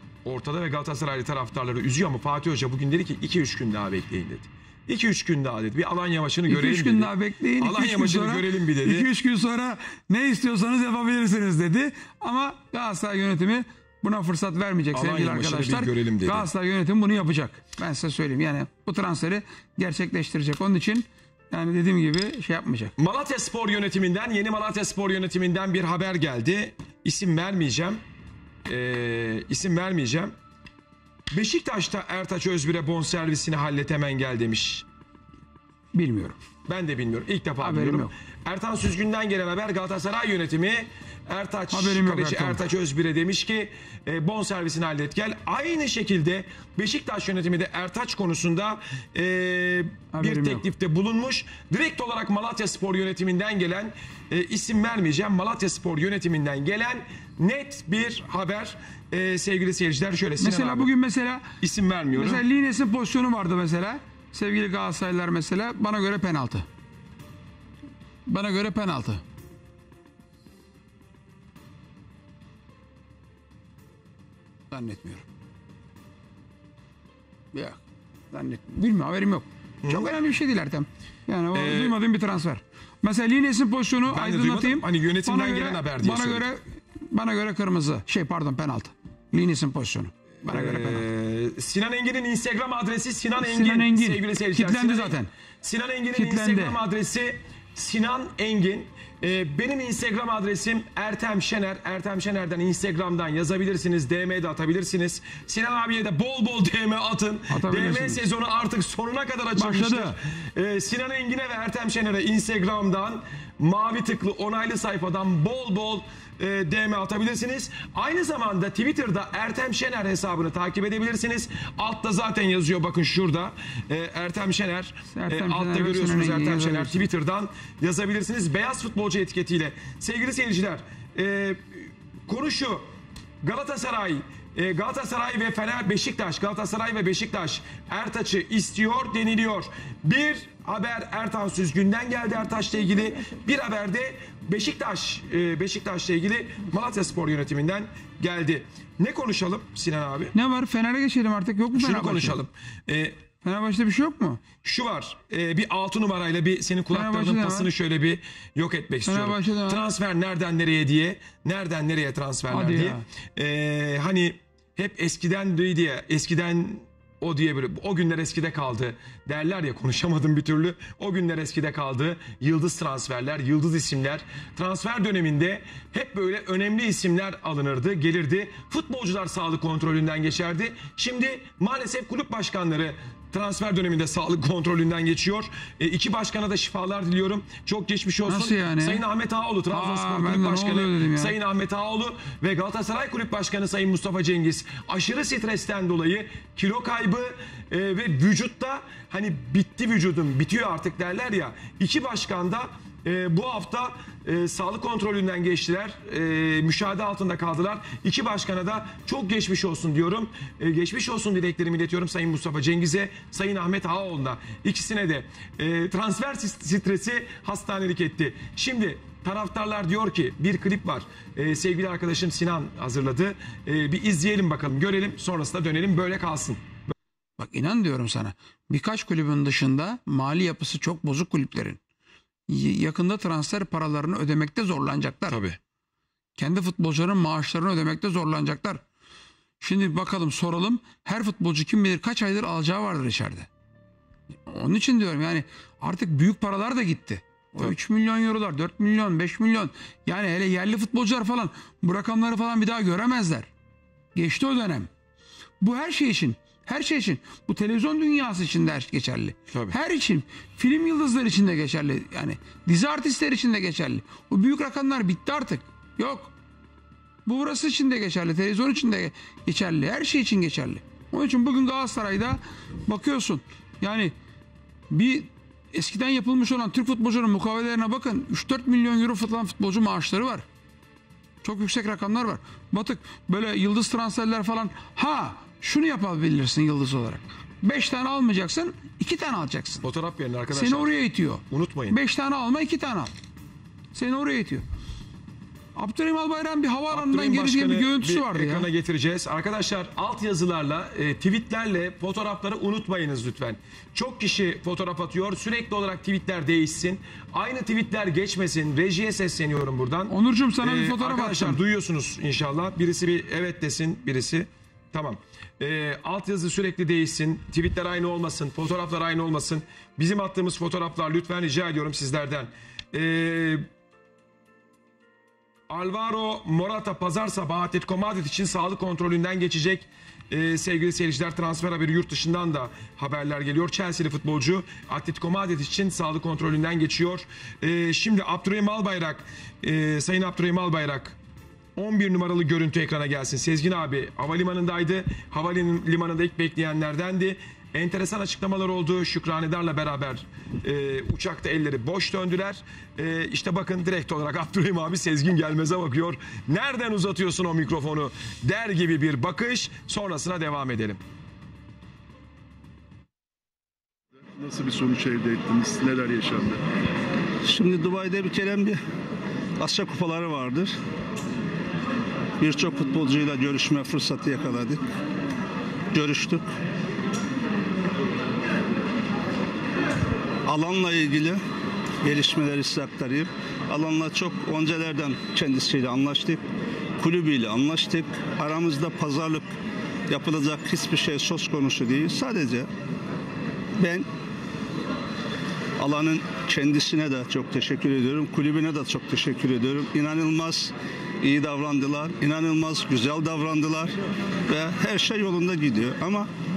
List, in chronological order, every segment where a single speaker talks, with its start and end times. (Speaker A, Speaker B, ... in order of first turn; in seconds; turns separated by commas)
Speaker A: 0.2-9.1, Speaker B: 6.5-22.9, Speaker A: 14.9-16.5, Speaker A: 23.0-28.0, Speaker A: 28.7-30.4, Speaker A: 31.3-34.9, Speaker B: 35.9-36.4, Speaker A: 36.7-60.9, Speaker B: 37.6-38.1, Speaker B: 41.7-42.6, Speaker B: 50.1-50.6, Speaker B: 60.4-61.4, Speaker A: 61.6-62.4, Speaker B: 62.1-66.7, Speaker B: 68.3-69.2, Speaker B: 74.7-75.2, Speaker B: 77.5-77.8, Speaker B: 78.3-91.1, Speaker A: 79.8-80.1, Speaker A: 81.5-82.0, Speaker A: 84.0-86.5, Speaker A: 90.4-132.8, Speaker B: 93.4-95.3, Speaker B: 96.1-96.8, Speaker B: 107.5-108.2, Speaker B: 109.5-110.2, Speaker B: 125.1-127.1, Speaker A: 133.4-150.3, Speaker B: 150.3-152.4, Speaker A: 151.7-153.2, Speaker B: 153.4-154.4, Speaker A: 154.6-226.9, Speaker B: 156.9-157.7, Speaker B: 159.0-159.9, Speaker B: 162.5-163.0, Speaker B: 188.3-189.0, Speaker B: 189.7-191.4, Speaker B: 227.4-231.8, Speaker B: 232.5-235.4, Speaker A: 235.3-235.6, Speaker B: 236.4-238.8, Speaker B: 239.6-243.5, Speaker B: 244.5-253.5, Speaker B: 254.2-254.9, Speaker B: 255.6-266.3, Speaker B: 267.3-274.1, Speaker B: 274.9-280.4, Speaker B: 281.4-289.9, Speaker A: 289.8-291.0, Speaker B: 290.5-293.1, Speaker A: 291.5-292.0, Speaker B: 293.9-294.6, Speaker B: 295.8-298.7, Speaker A: 296.9-323.7, Speaker B: 310.1-311.6, Speaker A: 325.7-341.2, Speaker A: 341.8-361.0, Speaker C: 364.4-366.6, Speaker D: 367.4-368.8, Speaker D: 369.6-370.8, Speaker D: 372.4-374.8, Speaker D: 375.9-376.5, Speaker D: 380.5-381.4, Speaker D: 382.0-386.4, Speaker D: 387.0-389.5, Speaker D: 390.1-392.7, Speaker D: 393.8-394.1, Speaker D: 395.8-403.9, Speaker D: 404.5-406.3